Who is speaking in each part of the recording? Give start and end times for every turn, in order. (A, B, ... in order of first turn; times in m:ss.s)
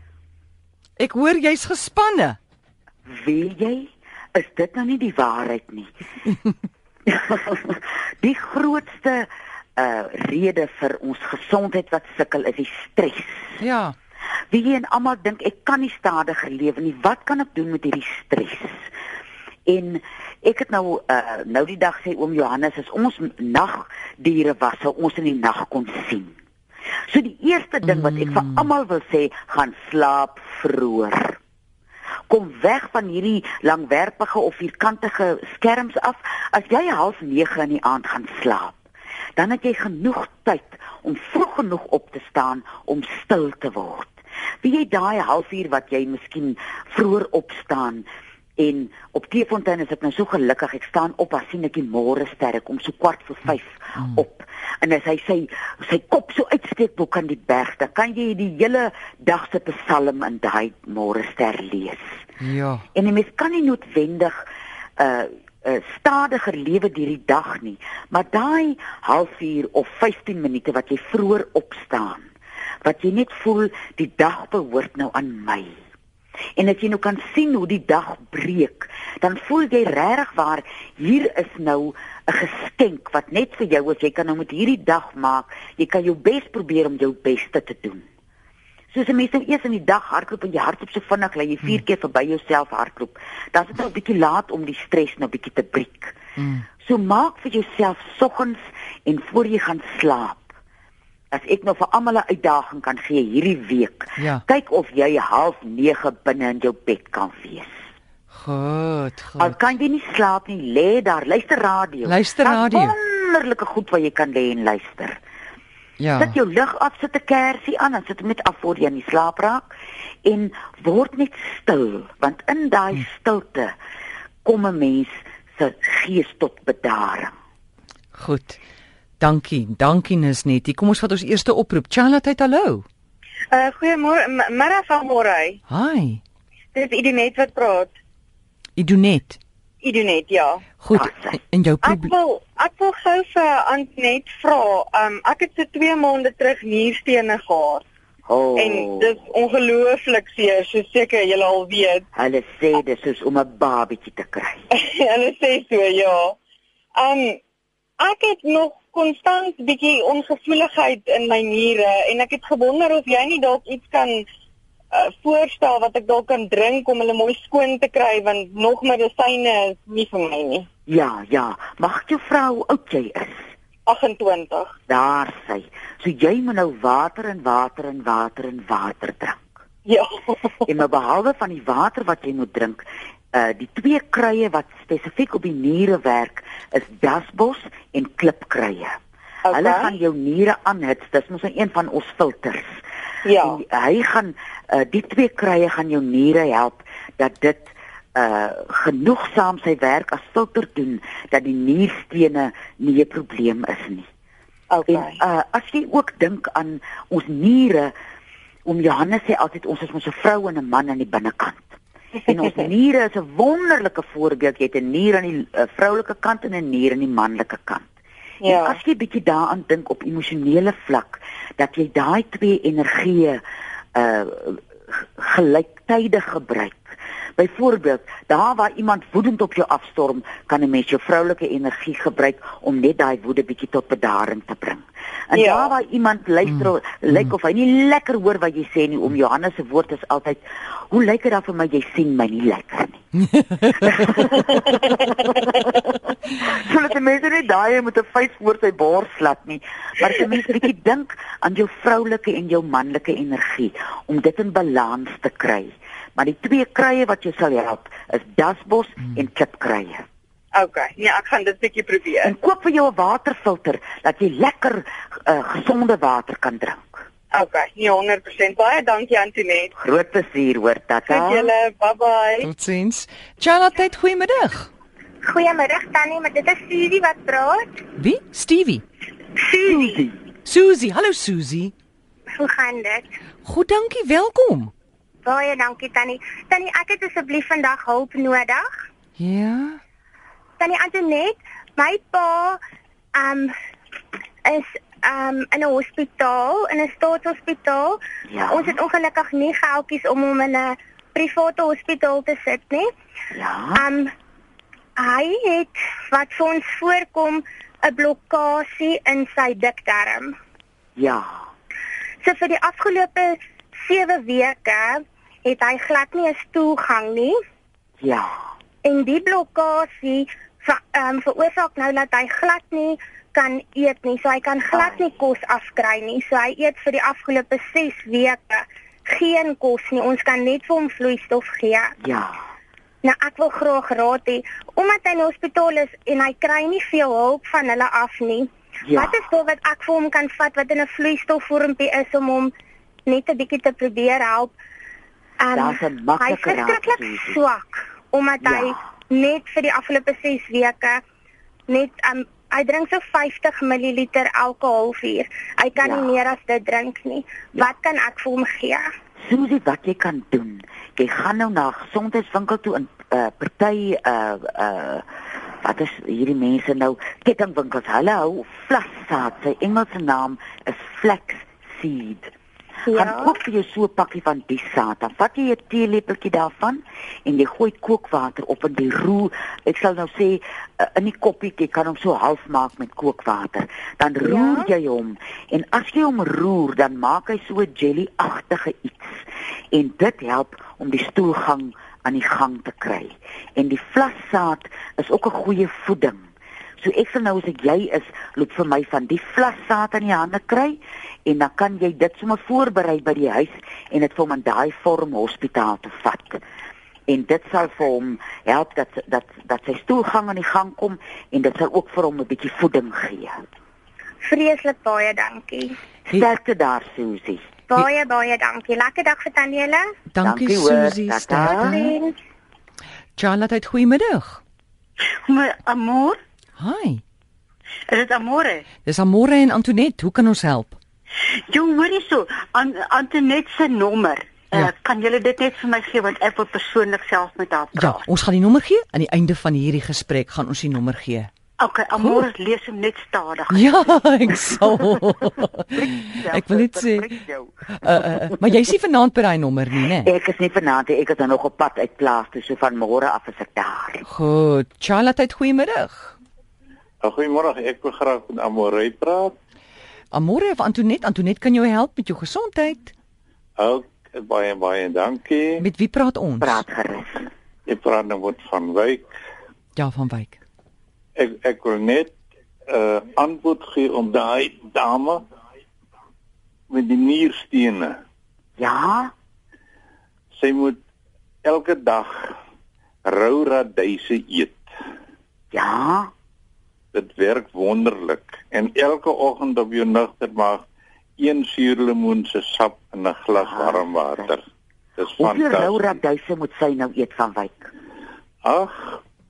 0:01.0-0:02.4 A
0:03.1-0:05.9 B
0:07.1-0:13.6 B
0:13.6-0:14.0 A
0:14.5-0:18.8 B
0:19.7-0:26.4 B
0:27.1-0:31.4 B
0:27.8-0:28.7 A
0:32.3-0:38.8 B
0:39.4-0:48.1 B
0:48.6-1:02.0 B
1:02.4-1:02.9 A
1:02.9-1:04.4 B
1:05.0-1:12.3 B
1:12.8-1:15.8 B
1:16.6-1:28.0 B
1:28.9-1:36.2 B
1:36.4-1:36.7 A
1:36.8-1:40.5 B
1:41.3-1:47.7 B
1:44.2-1:44.4 A
1:48.3-1:49.6 A
1:49.4-1:55.2 B
1:52.0-1:53.0 A
1:56.0-1:56.4 A
1:56.2-1:59.7 B
2:00.2-2:03.7 B
2:04.4-2:07.3 B
2:08.2-2:08.6 A
2:09.2-2:12.8 A
2:13.5-2:15.6 C
2:15.7-2:16.2 A
2:16.8-2:17.9 C
2:18.8-2:19.4 A
2:19.8-2:20.6 C
2:20.8-2:22.1 A
2:20.9-2:21.4 B
2:21.8-2:27.8 C
2:28.3-2:29.1 B
2:28.6-2:32.0 C
2:32.2-2:34.6 B
2:34.7-2:36.4 C
2:37.0-2:37.4 C
2:38.0-2:44.3 C
2:44.9-2:50.7 C
2:50.9-2:53.5 B
2:53.9-2:54.7 C
2:54.9-2:59.5 B
2:59.9-3:00.6 C
3:00.7-3:09.0 B
3:09.4-3:10.0 C
3:09.5-3:12.8 B
3:13.2-3:13.6 C
3:13.4-3:24.1 B
3:24.7-3:25.2 C
3:24.9-3:27.9 B
3:28.7-3:37.9 B
3:38.4-3:38.8 C
3:38.5-3:43.4 B
3:44.0-4:03.0 B
3:55.3-3:55.7 C
4:03.5-4:03.8 A
4:03.7-4:20.0 B
4:20.5-4:22.3 C
4:22.2-4:27.1 B
4:27.3-4:29.7 C
4:29.8-4:31.5 B
4:31.1-4:32.5 C
4:32.4-4:34.7 A
4:35.2-4:37.8 D
4:38.0-4:38.8 A
4:39.4-4:40.0 D
4:39.7-4:40.2 B
4:40.4-4:41.7 A
4:42.3-4:43.2 D
4:43.4-4:44.7 A
4:45.2-4:48.7 D
4:49.2-4:49.8 A
4:50.6-4:52.6 D
4:53.1-4:53.5 D
4:54.4-4:58.0 D
4:58.3-4:58.7 B
4:58.5-5:02.9 D
5:03.3-5:03.8 B
5:03.8-5:04.1 D
5:05.0-5:10.4 D
5:11.0-5:11.3 B
5:12.2-5:17.4 D
5:18.0-5:18.3 B
5:18.8-5:32.0 D
5:24.7-5:25.1 B
5:32.0-5:32.4 B
5:33.0-5:42.5 D
5:38.8-5:39.2 B
5:43.1-5:44.6 D
5:45.4-5:51.0 D
5:45.5-5:47.4 B
5:48.4-5:48.8 B
5:51.7-5:58.9 D
5:55.8-5:56.2 B
5:59.2-6:05.1 B
6:05.6-6:12.3 B
6:12.9-6:13.3 D
6:12.9-6:36.3 B
6:24.2-6:24.7 D
6:36.8-6:46.4 B
6:47.1-6:53.4 B
6:54.2-6:55.8 D
6:56.1-6:57.5 B
6:57.7-6:59.9 D
7:00.1-7:01.9 A
7:00.2-7:01.9 B
7:01.5-7:02.2 D
7:03.2-7:04.4 A
7:05.2-7:06.2 E
7:06.6-7:07.0 A
7:07.9-7:08.6 E
7:08.8-7:10.8 A
7:11.5-7:18.0 E
7:17.8-7:21.3 A
7:21.6-7:23.7 E
7:23.5-7:27.1 A
7:25.7-7:28.4 B
7:27.8-7:30.1 A
7:30.0-7:34.0 B
7:34.1-7:36.2 A
7:37.0-7:39.4 F
7:40.1-7:42.9 A
7:43.6-7:45.6 F
7:45.6-7:46.6 A
7:46.4-7:47.3 B
7:47.7-7:49.1 F
7:49.8-7:50.4 A
7:51.2-7:52.2 F
7:52.7-7:55.2 F
7:56.7-7:58.0 F
7:58.6-7:59.1 B
8:00.4-8:00.8 F
8:01.4-8:02.3 F
8:03.0-8:04.6 F
8:05.5-8:06.1 B
8:06.9-8:10.7 F
8:11.2-8:14.4 F
8:13.4-8:14.3 B
8:15.0-8:15.9 F
8:15.2-8:17.7 B
8:18.4-8:19.0 F